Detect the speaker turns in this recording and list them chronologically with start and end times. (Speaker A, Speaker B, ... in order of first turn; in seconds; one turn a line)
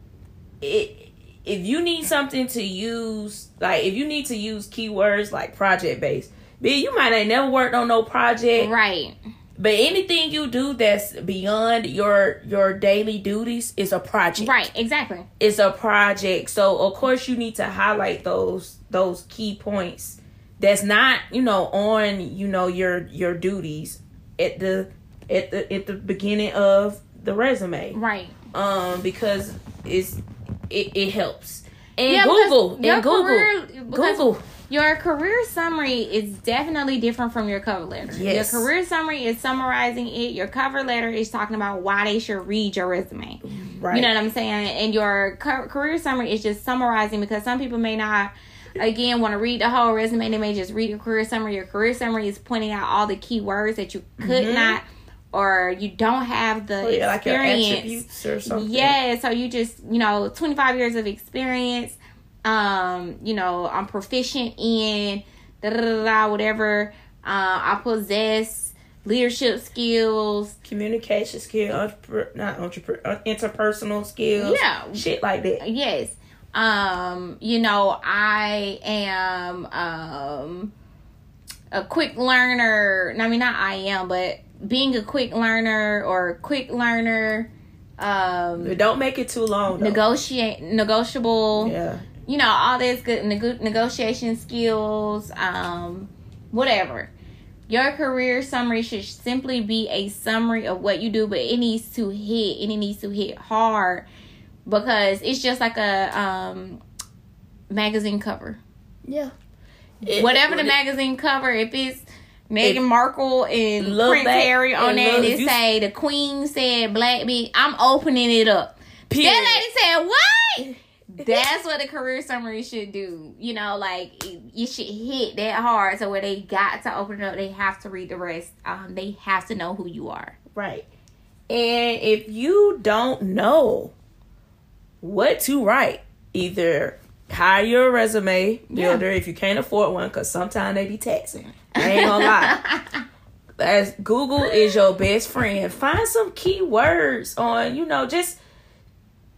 Speaker A: 0.6-8.7
Speaker B: 8.6-9.2
Speaker A: 9.6-14.6
Speaker B: 14.4-15.3
Speaker A: 15.4-28.0
Speaker B: 27.9-28.3
Speaker A: 28.5-34.4
Speaker B: 32.0-70.5
Speaker A: 38.1-38.7
Speaker A: 43.4-44.1
Speaker A: 54.2-54.8
Speaker A: 56.8-59.0
Speaker A: 70.6-75.6
Speaker B: 74.4-75.0
Speaker B: 75.6-80.7
Speaker B: 81.7-88.8
Speaker A: 88.6-90.0
Speaker B: 89.8-97.1
Speaker A: 91.5-92.0
Speaker B: 97.7-104.0
Speaker B: 104.7-106.8
Speaker B: 107.7-108.6
Speaker A: 109.0-109.3
Speaker A: 110.0-110.8
Speaker B: 110.1-130.3
Speaker A: 113.8-115.6
Speaker A: 119.1-119.6
Speaker A: 120.6-121.4
Speaker A: 130.5-130.9
Speaker A: 131.5-133.9
Speaker A: 135.0-142.6
Speaker B: 138.7-139.0
Speaker B: 141.8-142.8
Speaker A: 143.6-148.4